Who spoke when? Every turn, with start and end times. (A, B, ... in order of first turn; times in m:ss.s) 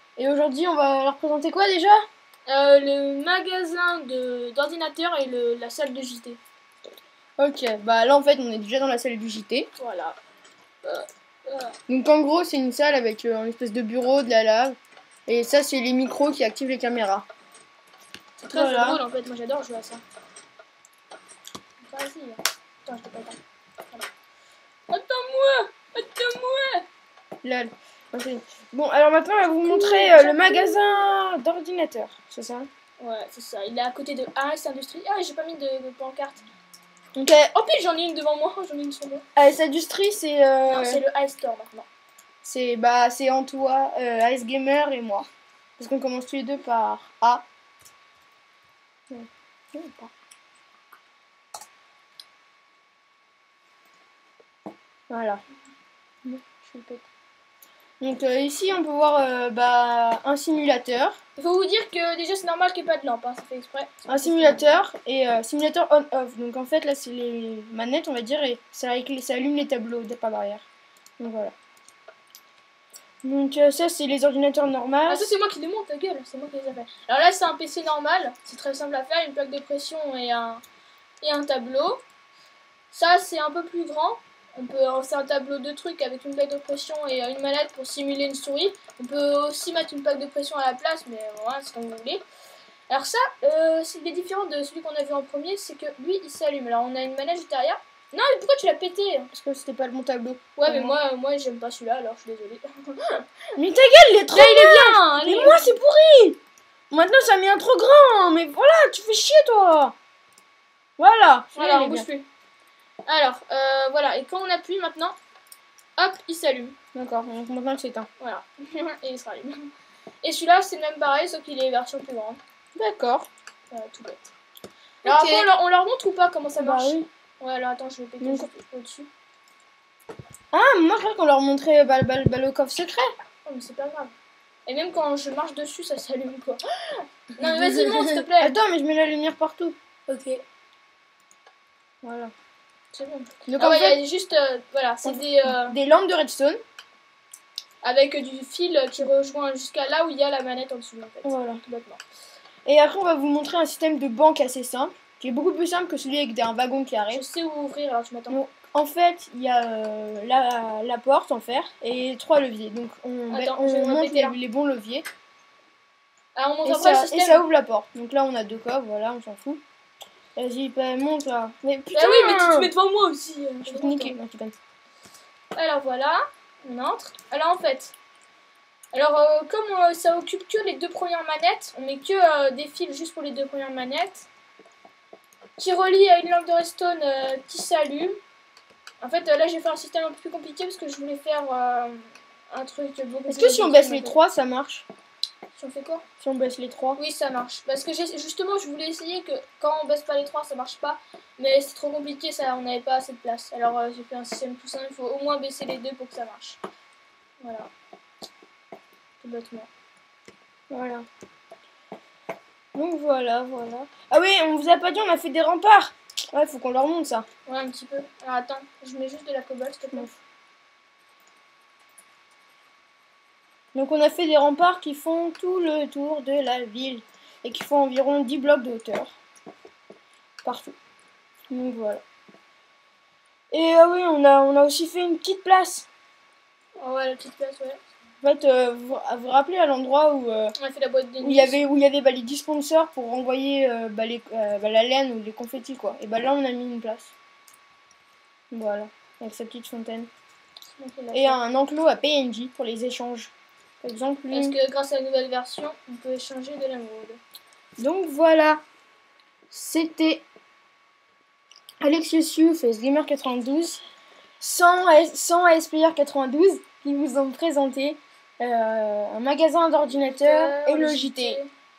0:00.2-0:02.0 A
0:02.5-0:06.4 B
0:07.4-0:09.7 A
0:09.8-0:10.2 B
0:10.8-0:11.8 B
0:11.9-0:17.3 A
0:18.4-0:20.0 B
0:18.5-0:19.0 A
0:21.8-0:23.4 B
0:24.9-0:26.8 B
0:27.4-0:32.7 A
0:29.4-0:31.1 B
0:33.0-0:36.4 B
0:37.2-0:37.5 A
0:37.3-0:39.2 B
0:39.4-0:41.0 A
0:40.7-0:41.9 B
0:42.4-0:45.3 A
0:45.8-0:47.4 A
0:49.1-0:50.1 A
0:55.1-0:55.4 A
0:56.2-0:57.0 A
0:58.0-1:01.2 A
1:01.4-1:04.8 B
1:04.1-1:10.6 A
1:11.2-1:11.6 A
1:13.2-1:15.3 A
1:15.0-1:20.6 B
1:21.2-1:22.0 B
1:22.9-1:32.2 B
1:32.9-1:39.3 B
1:39.3-1:41.0 A
1:40.6-1:43.2 B
1:43.6-1:46.4 A
1:44.3-1:45.8 B
1:46.9-1:50.0 A
1:51.0-1:52.1 A
1:51.5-1:52.3 B
1:53.0-1:55.1 B
1:56.0-1:56.8 B
1:57.0-1:58.1 A
1:58.2-1:59.7 B
2:00.2-2:02.4 B
2:02.7-2:03.3 A
2:03.7-2:04.2 B
2:05.0-2:05.5 A
2:05.0-2:09.1 B
2:06.6-2:07.1 A
2:08.2-2:08.5 A
2:10.5-2:13.1 A
2:13.4-2:14.1 B
2:14.7-2:18.6 B
2:17.4-2:19.8 A
2:20.1-2:20.4 B
2:22.0-2:22.3 A
2:22.9-2:25.8 B
2:23.4-2:24.0 A
2:25.0-2:26.6 A
2:27.8-2:32.0 B
2:31.2-2:31.6 A
2:32.6-2:37.2 A
2:37.1-2:38.4 B
2:38.3-2:45.1 A
2:43.3-2:44.4 B
2:46.4-2:47.4 B
2:46.6-2:49.6 A
2:50.4-2:52.7 A
2:51.9-2:54.1 B
2:53.6-2:54.5 A
2:55.6-2:57.9 B
2:58.9-3:04.3 B
3:05.6-3:08.2 B
3:09.0-3:14.2 B
3:13.3-3:14.9 A
3:15.6-3:16.0 B
3:16.2-3:17.0 A
3:17.0-3:26.6 B
3:27.4-3:27.7 B
3:29.2-3:29.7 B
3:30.7-3:31.1 A
3:32.7-3:37.2 A
3:37.4-3:40.1 B
3:43.7-3:49.2 A
3:50.4-3:50.8 A
3:51.5-3:52.0 A
3:53.5-3:55.9 A
3:56.8-3:57.8 B
3:58.2-4:00.6 A
4:00.6-4:01.6 B
4:01.2-4:07.1 A
4:08.5-4:10.1 A
4:10.8-4:11.4 B
4:11.1-4:14.6 A
4:14.3-4:17.2 B
4:17.8-4:18.6 A
4:19.5-4:20.2 A
4:21.8-4:23.8 A
4:24.4-4:31.4 A
4:30.0-4:31.5 B